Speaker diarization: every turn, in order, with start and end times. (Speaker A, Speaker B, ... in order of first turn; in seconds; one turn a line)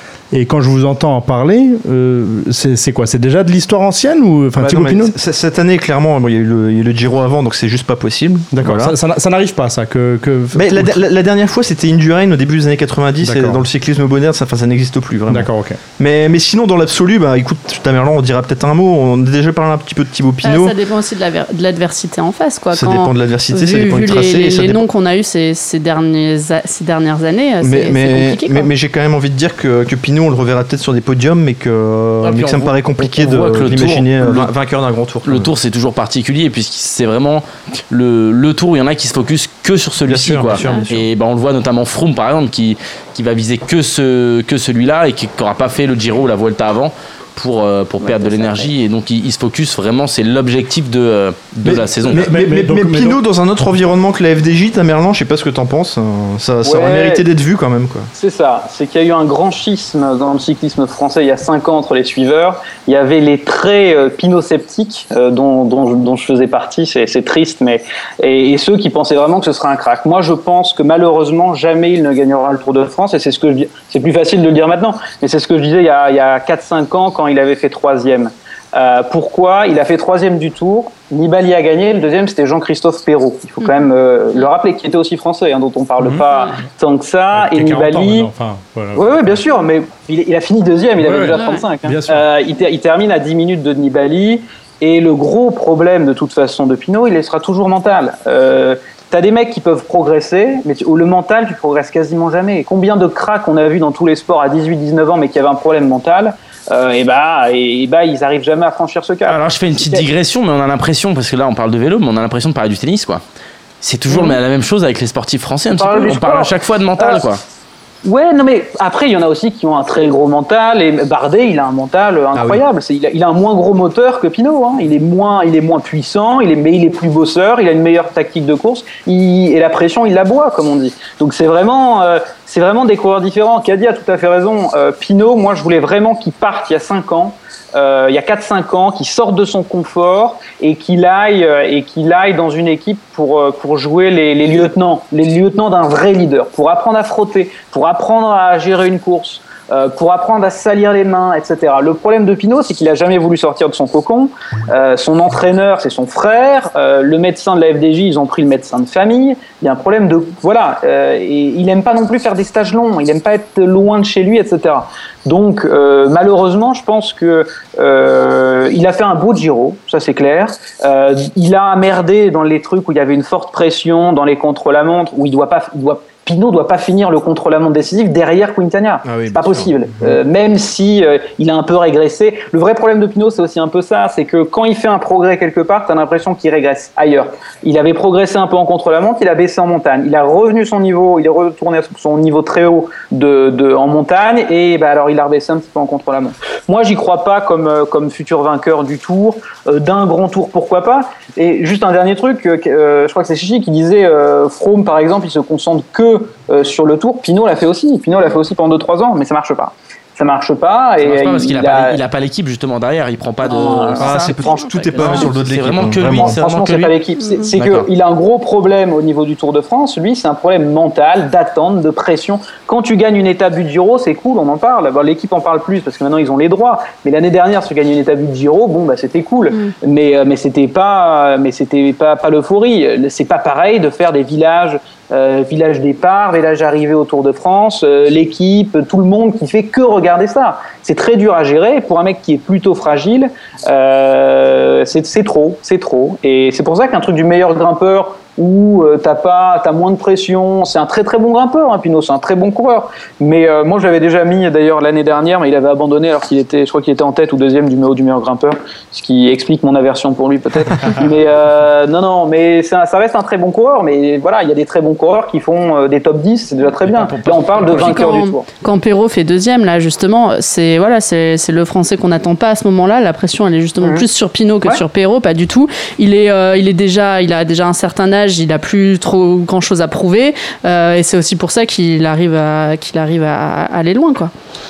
Speaker A: 0.3-5.1
Speaker B: 4.6-9.0
Speaker A: 8.5-10.9
Speaker B: 10.5-20.7
Speaker A: 13.2-13.6
Speaker A: 15.3-15.8
Speaker C: 20.4-28.7
Speaker B: 22.7-24.8
Speaker B: 27.6-35.5
Speaker D: 32.2-34.5
Speaker D: 35.2-52.2
Speaker B: 40.0-41.0
Speaker E: 48.0-48.7
Speaker B: 51.6-58.1
Speaker A: 52.1-53.2
Speaker E: 56.6-57.2
Speaker E: 58.1-88.3
Speaker A: 86.0-86.2
Speaker A: 87.3-89.4
Speaker E: 89.0-110.0
Speaker A: 91.0-92.2
Speaker C: 91.3-91.6
Speaker D: 109.2-113.2
Speaker D: 113.8-117.4
Speaker E: 114.1-114.4
Speaker E: 115.8-117.2
Speaker E: 118.0-212.0
Speaker B: 122.3-122.6
Speaker B: 179.0-180.1
Speaker D: 211.0-214.3
Speaker E: 213.4-214.3
Speaker B: 214.0-216.4
Speaker C: 214.4-215.1
Speaker D: 214.9-216.9
Speaker E: 216.1-268.5
Speaker D: 217.5-217.9
Speaker D: 266.8-268.1
Speaker C: 267.7-284.3
Speaker E: 273.8-274.1